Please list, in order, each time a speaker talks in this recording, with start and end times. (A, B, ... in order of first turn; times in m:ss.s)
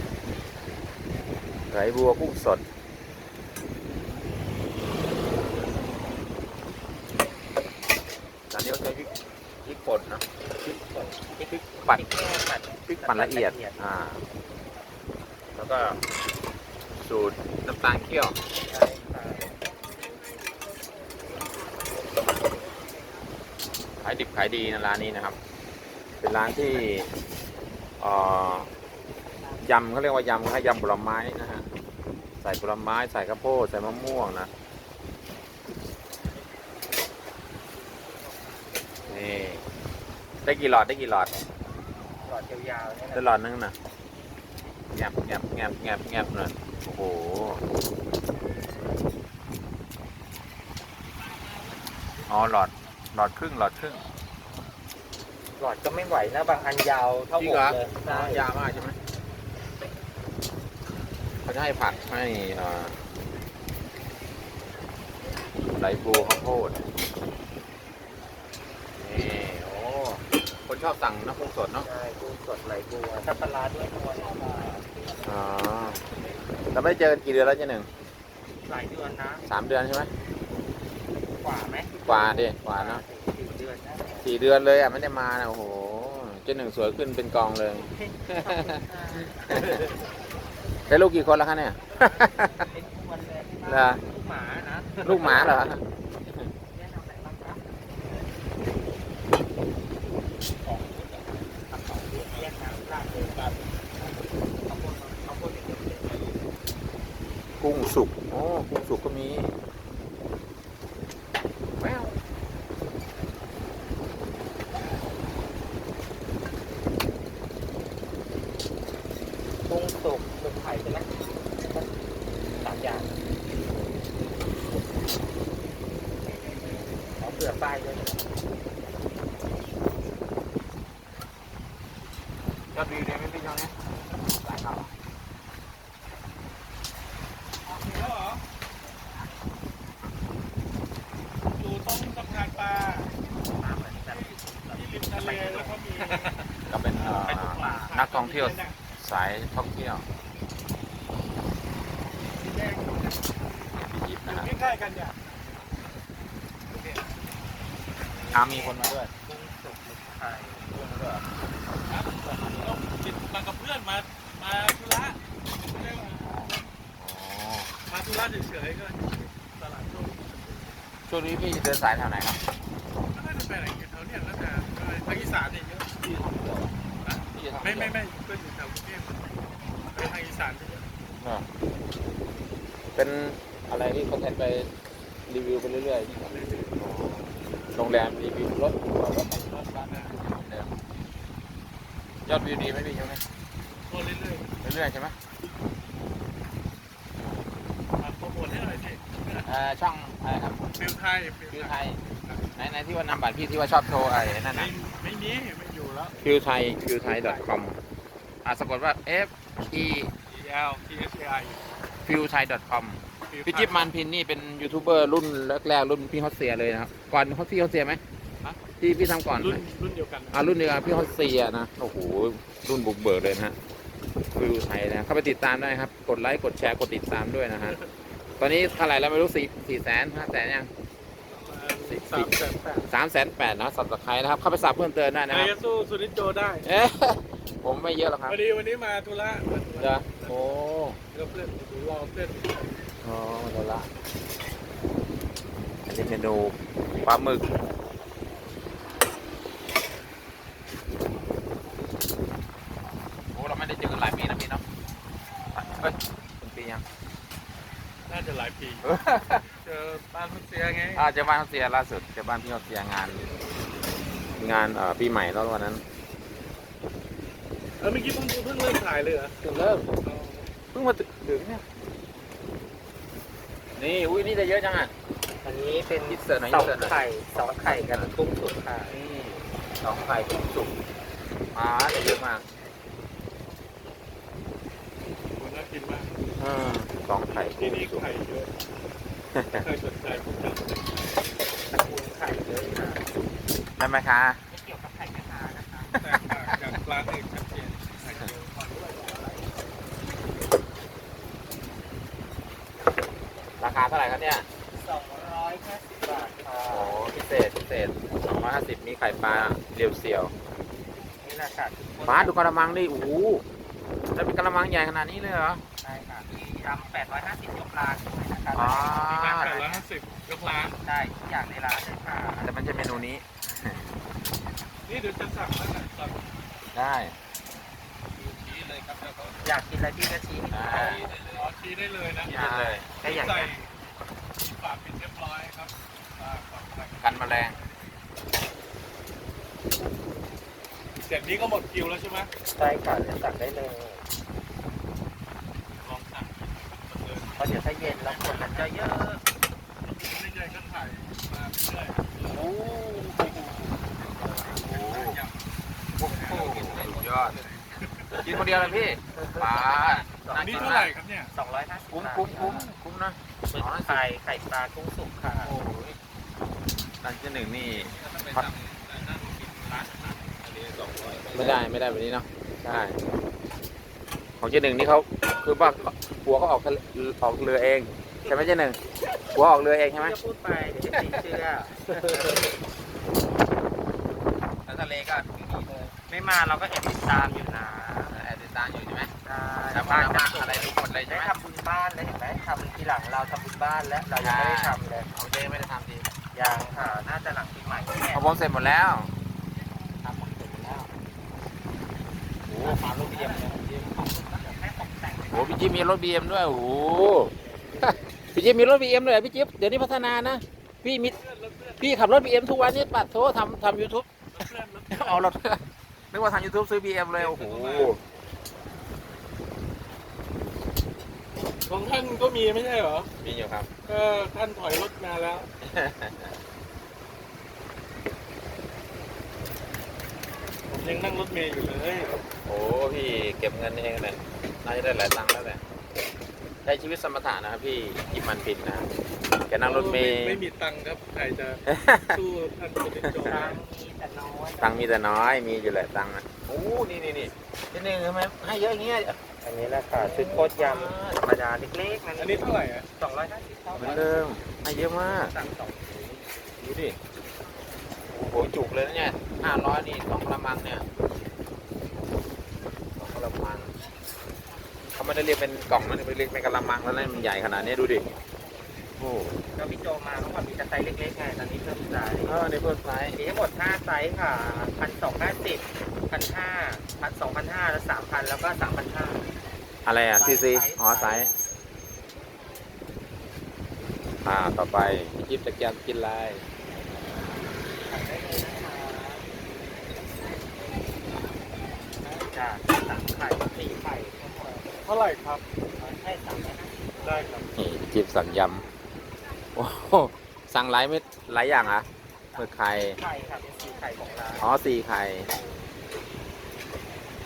0:01.7-0:02.6 A
0:08.5-0:09.1 A
0:09.6-0:10.2 A
0:10.6-0:13.9 B
0:11.5-0:12.0 A
0:12.9-0:14.2 A
0:15.6-0:16.0 A
0:17.0-0:18.4 A
0:18.7-0:19.5 B
0:24.0-0:25.4 A
0:26.2-0:27.1 A
0:28.0-0:28.7 A
0:29.6-0:31.7 A
0:32.4-0:34.5 A
0:39.1-0:39.6 A
0:40.4-0:41.4 A
0:42.2-0:43.3 B
0:43.1-0:43.8 A
0:44.9-0:47.6 A
0:52.3-0:54.1 A
0:55.6-0:58.5 B
0:57.4-0:59.0 A
1:01.4-1:03.0 A
1:05.7-1:06.8 A
1:09.0-1:11.9 A
1:11.8-1:15.5 B
1:15.2-1:16.0 A
1:16.7-1:17.9 A
1:18.6-1:19.4 B
1:19.5-1:20.1 A
1:21.4-1:24.3 B
1:22.0-1:23.0 A
1:24.2-1:28.8 A
1:27.7-1:29.8 B
1:29.4-1:29.8 A
1:30.9-1:32.7 A
1:31.9-1:35.6 B
1:33.7-1:34.0 A
1:35.0-1:36.5 A
1:36.7-1:37.7 B
1:40.5-1:43.8 C
1:42.2-1:43.4 B
1:44.6-1:46.4 B
1:47.6-1:49.5 A
1:51.8-1:52.1 A
1:59.7-2:01.9 B
2:02.6-2:03.2 B
2:06.2-2:08.3 B
2:12.7-2:13.7 A
2:14.3-2:14.9 A
2:17.7-2:18.1 B
2:17.8-2:18.4 C
2:21.4-2:23.1 C
2:23.4-2:25.8 B
2:24.1-2:28.8 C
2:26.7-2:30.0 A
2:27.0-2:28.0 B
2:32.4-2:33.2 B
2:33.8-2:35.2 C
2:34.0-2:34.5 A
2:36.7-2:37.2 C
2:38.3-2:39.1 A
2:38.4-2:40.6 B
2:40.6-2:41.3 A
2:41.8-2:46.7 C
2:42.3-2:42.7 A
2:45.9-2:47.7 A
2:47.8-2:50.8 C
2:51.1-2:52.4 A
2:53.1-2:56.1 C
2:56.0-2:56.8 A
2:57.0-3:01.0 C
2:57.3-2:58.0 A
3:01.2-3:01.5 A
3:03.0-3:04.7 A
3:05.3-3:10.7 A
3:06.3-3:06.7 C
3:09.5-3:10.1 C
3:12.3-3:13.2 A
3:13.9-3:14.6 C
3:14.6-3:15.2 A
3:15.4-3:15.7 C
3:18.0-3:19.5 C
3:19.5-3:20.7 A
3:20.7-3:22.4 C
3:21.5-3:22.0 A
3:22.6-3:24.7 A
3:24.4-3:26.2 C
3:26.2-3:27.8 A
3:27.0-3:27.5 C
3:28.4-3:30.1 A
3:30.3-3:31.6 C
3:32.0-3:38.0 A
3:33.3-3:33.9 C
3:38.8-3:39.6 A
3:39.3-3:40.5 C
3:40.3-3:43.6 A
3:44.3-3:47.8 A
3:47.6-3:47.9 C
3:48.4-3:50.7 A
3:51.3-3:52.9 C
3:51.8-3:52.3 A
3:52.9-3:55.5 A
3:55.3-3:56.7 C
3:56.6-3:58.4 A
3:58.3-4:00.5 C
3:59.8-4:01.0 A
4:01.1-4:02.8 C
4:03.0-4:03.9 A
4:05.9-4:07.4 A
4:13.3-4:14.6 A
4:15.5-4:16.8 A
4:18.1-4:18.9 C
4:18.8-4:19.5 A
4:19.5-4:21.1 C
4:21.0-4:23.3 A
4:24.3-4:25.8 A
4:27.8-4:29.4 C
4:29.4-4:29.9 A
4:30.0-4:30.5 C
4:30.7-4:31.6 A
4:33.8-4:34.9 A
4:35.4-4:39.0 B
4:36.1-4:38.1 A
4:38.9-4:40.8 A
4:41.5-4:42.4 A
4:45.4-4:46.1 C
4:46.4-4:48.1 A
4:47.3-4:48.5 C
4:49.3-4:49.6 A
4:49.5-4:51.0 C
4:51.7-4:53.0 B
4:53.8-4:54.4 A
4:54.5-4:55.9 B
4:55.9-4:56.7 A
4:56.0-4:59.5 C
5:03.6-5:04.5 A
5:04.7-5:07.0 B
5:06.7-5:10.3 A
5:11.2-5:12.5 B
5:12.0-5:13.4 A
5:14.1-5:15.6 A
5:15.8-5:19.8 B
5:18.5-5:19.6 A
5:19.0-5:20.8 C
5:20.8-5:23.0 B
5:22.4-5:23.9 A
5:24.8-5:26.2 C
5:26.7-5:27.2 A
5:28.2-5:29.4 C
5:29.4-5:31.1 B
5:30.5-5:31.4 A
5:30.7-5:32.4 C
5:32.2-5:32.9 A
5:32.3-5:33.5 B
5:33.0-5:33.7 C
5:34.4-5:37.8 C
5:37.0-5:37.6 A
5:41.0-5:42.3 C
5:42.5-5:44.0 B
5:45.7-5:48.7 C
5:47.4-5:49.2 B
5:49.8-5:52.5 C
5:52.2-5:53.7 A
5:53.7-5:55.4 C
5:54.2-5:55.2 A
5:56.0-5:58.9 C
5:56.0-5:57.4 A
5:58.2-6:00.9 A
5:59.4-6:02.6 B
6:00.3-6:01.3 C
6:01.9-6:04.0 A
6:02.3-6:02.6 C
6:03.5-6:05.6 B
6:05.4-6:06.0 A
6:07.0-6:08.5 A
6:07.7-6:11.7 C
6:11.2-6:13.0 A
6:14.4-6:18.8 A
6:19.3-6:20.2 A
6:19.9-6:22.4 B
6:24.7-6:25.9 A
6:26.0-6:28.2 B
6:28.1-6:29.1 A
6:29.2-6:35.1 B
6:29.7-6:31.3 A
6:34.2-6:36.1 A
6:36.3-6:38.3 B
6:38.1-6:39.1 A
6:40.0-6:40.9 A
6:42.5-6:44.2 A
6:42.6-6:45.8 B
6:45.3-6:51.2 A
6:47.5-6:48.0 B
6:51.1-6:52.0 C
6:51.8-6:58.0 A
6:54.3-6:55.3 C
6:57.1-6:58.0 C
7:01.6-7:03.1 C
7:03.2-7:03.7 A
7:03.9-7:05.5 C
7:05.6-7:06.4 A
7:10.7-7:12.2 C
7:12.5-7:15.6 A
7:16.6-7:18.9 A
7:19.5-7:20.5 A
7:19.6-7:23.6 C
7:21.7-7:22.2 A
7:23.0-7:23.4 A
7:23.2-7:25.0 B
7:24.6-7:29.2 A
7:29.4-7:32.4 B
7:30.0-7:31.2 A
7:32.2-7:32.9 C
7:33.0-7:34.2 B
7:33.8-7:35.3 A
7:35.2-7:36.0 B
7:36.0-7:37.0 A
7:38.1-7:40.8 A
7:43.0-7:43.7 A
7:45.0-7:48.0 A
7:49.0-7:49.4 A
7:49.6-7:52.4 B
7:52.2-7:53.2 A
7:53.1-7:59.2 B
7:59.8-8:01.3 A
8:00.2-8:01.3 B
8:04.2-8:06.4 A
8:07.8-8:09.2 B
8:12.2-8:14.8 B
8:14.8-8:15.4 C
8:15.8-8:17.3 B
8:17.0-8:17.5 C
8:17.6-8:18.6 A
8:19.6-8:21.9 A
8:22.3-8:24.5 B
8:22.4-8:23.0 A
8:24.4-8:25.3 A